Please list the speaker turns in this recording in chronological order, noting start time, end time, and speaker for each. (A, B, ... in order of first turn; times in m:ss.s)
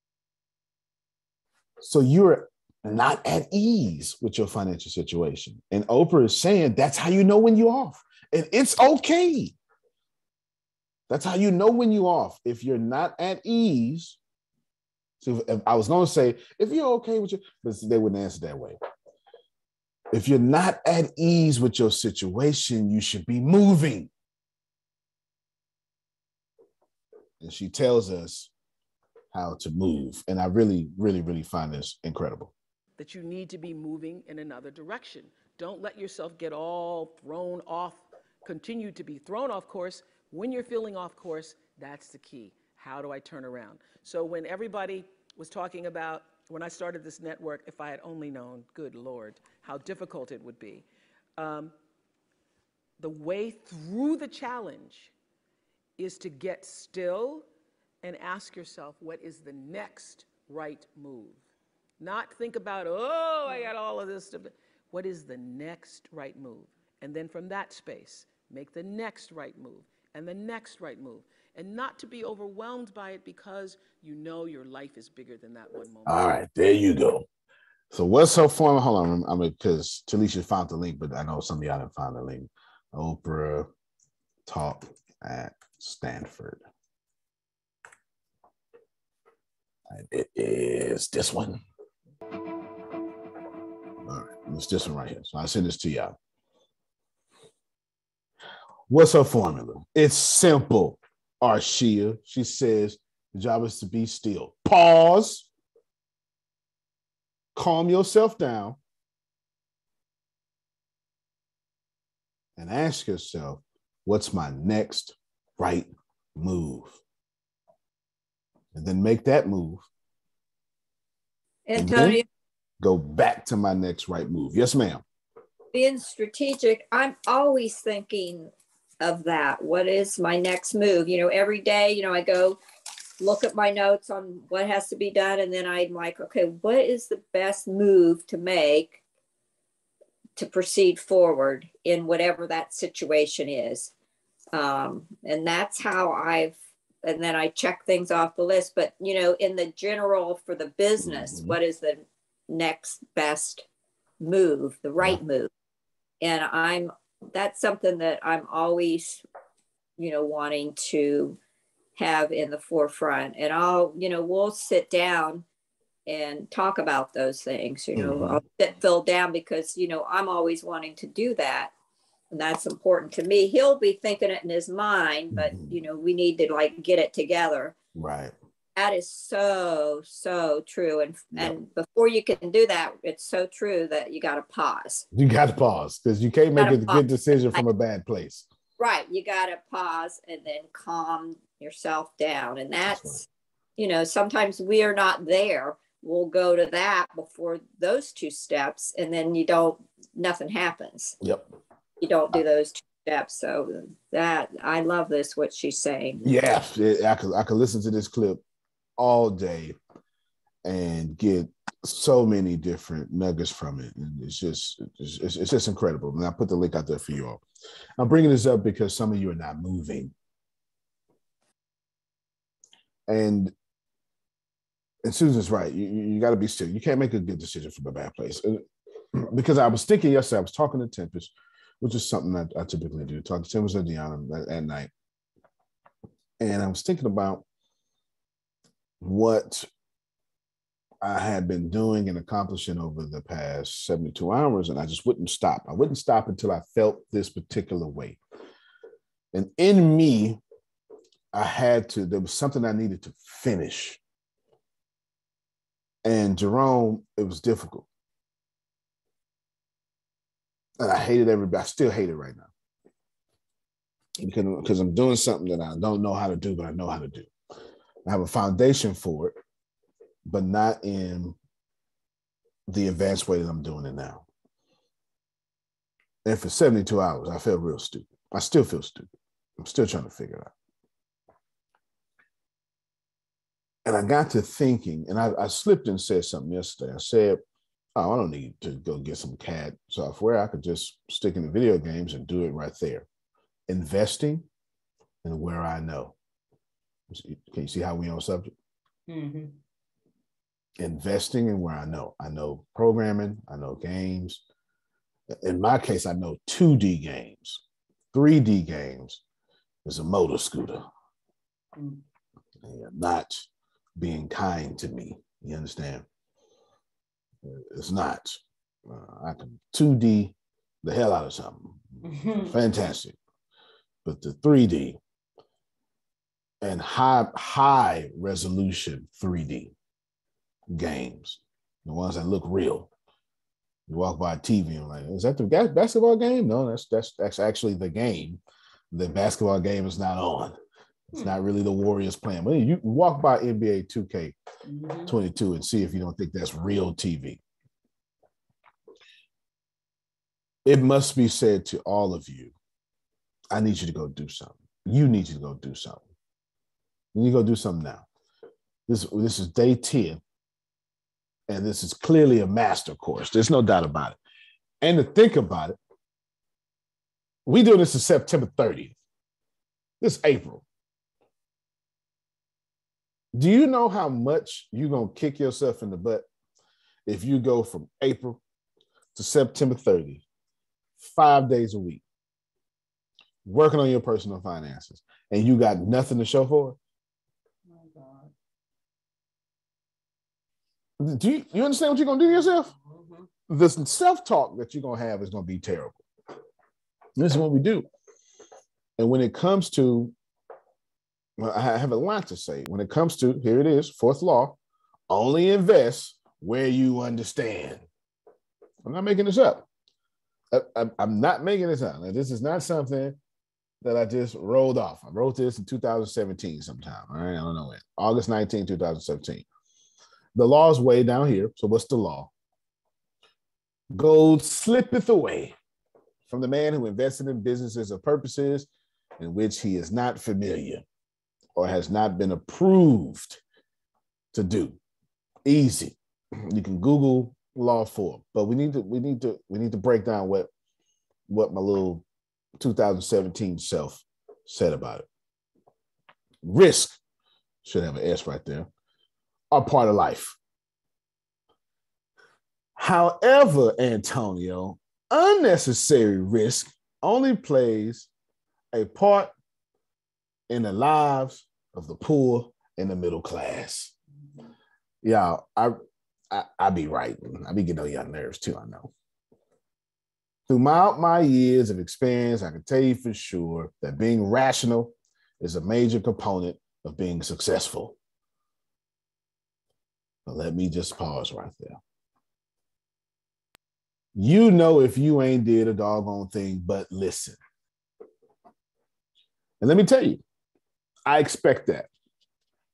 0:01.8-0:09.6 A
0:11.1-0:14.2 A
0:15.2-0:18.8 A
0:20.1-0:24.1 A
0:27.4-0:28.5 A
0:29.3-0:32.5 A
0:33.0-0:50.8 B
0:51.4-0:51.7 B
0:53.0-0:55.1 B
0:56.0-0:57.5 B
0:58.0-1:01.4 B
1:02.0-1:16.2 B
1:16.1-1:17.3 A
1:17.9-1:23.7 A
1:24.5-1:26.6 A
1:29.9-1:31.6 A
1:34.1-1:36.2 A
1:38.9-1:45.5 A
1:47.6-1:48.8 A
1:52.6-1:57.0 A
1:58.7-1:59.8 A
2:01.7-2:02.2 C
2:01.8-2:02.2 A
2:02.8-2:05.0 A
2:05.7-2:12.6 C
2:13.2-2:19.0 C
2:20.4-2:23.9 C
2:24.5-2:33.7 C
2:31.0-2:31.6 A
2:34.2-2:35.5 C
2:36.2-2:39.2 C
2:40.0-2:41.4 C
2:42.0-2:45.4 C
2:46.1-2:51.7 C
2:48.0-2:48.4 A
2:52.3-2:57.8 C
2:55.3-2:55.8 A
2:58.0-2:58.3 A
2:58.8-3:05.0 C
3:05.1-3:08.4 A
3:06.6-3:07.6 C
3:08.8-3:13.3 C
3:12.9-3:13.2 A
3:13.8-3:21.2 C
3:21.2-3:21.5 A
3:22.0-3:26.2 C
3:26.2-3:28.4 A
3:29.0-3:29.8 A
3:30.6-3:37.4 A
3:38.0-3:40.1 A
3:43.1-3:43.5 A
3:45.0-3:54.9 A
3:56.4-3:57.4 A
3:59.0-3:59.7 A
4:01.0-4:08.2 A
4:09.3-4:10.4 A
4:11.3-4:14.0 A
4:16.0-4:17.9 A
4:20.8-4:22.5 A
4:24.2-4:27.3 A
4:28.1-4:29.4 A
4:30.2-4:31.4 A
4:32.7-4:34.2 A
4:36.2-4:40.5 A
4:43.8-4:47.4 A
4:48.0-4:53.1 A
4:53.7-4:54.4 A
4:55.2-4:56.1 A
4:57.1-4:58.5 A
4:59.1-4:59.6 D
5:00.8-5:04.4 A
5:05.4-5:07.6 A
5:08.1-5:09.2 A
5:09.8-5:10.8 A
5:11.8-5:12.0 D
5:12.6-5:13.4 A
5:14.0-5:16.0 A
5:17.4-5:21.8 A
5:22.0-5:22.6 D
5:22.4-5:23.2 A
5:24.0-5:25.0 A
5:26.6-5:29.7 A
5:30.7-5:32.9 A
5:33.9-5:38.4 A
5:38.9-5:40.6 A
5:41.2-5:44.4 A
5:44.7-5:45.2 D
5:45.1-5:47.4 A
5:50.7-5:52.5 A
5:53.5-5:56.0 A
5:57.2-5:58.0 A
5:58.9-6:00.2 A
6:01.5-6:04.2 A
6:04.8-6:05.8 A
6:07.5-6:09.0 A
6:10.0-6:10.6 A
6:13.3-6:16.3 A
6:17.1-6:18.4 A
6:19.2-6:20.2 A
6:21.0-6:22.0 A
6:23.4-6:26.8 A
6:27.7-6:28.3 D
6:31.0-6:32.7 A
6:32.3-6:33.3 D
6:33.5-6:36.0 A
6:37.2-6:37.9 A
6:39.0-6:40.1 A
6:41.4-6:44.6 A
6:45.1-6:47.8 A
6:48.8-6:49.6 A
6:50.5-6:53.2 A
6:53.8-6:59.4 A
7:00.4-7:02.3 A
7:03.9-7:05.6 A
7:06.3-7:08.7 A
7:09.2-7:10.8 A
7:11.6-7:13.4 A
7:14.3-7:14.8 A
7:15.4-7:20.5 A
7:21.3-7:22.0 A
7:22.6-7:25.1 A
7:26.4-7:27.0 A
7:27.6-7:28.7 A
7:29.5-7:30.4 A
7:32.8-7:38.1 A
7:38.7-7:39.3 A
7:40.5-7:43.9 A
7:45.0-7:45.8 A
7:46.3-7:48.9 A
7:50.5-7:58.0 A
8:00.3-8:01.8 A
8:04.2-8:07.4 A
8:09.6-8:10.2 A
8:11.1-8:11.9 A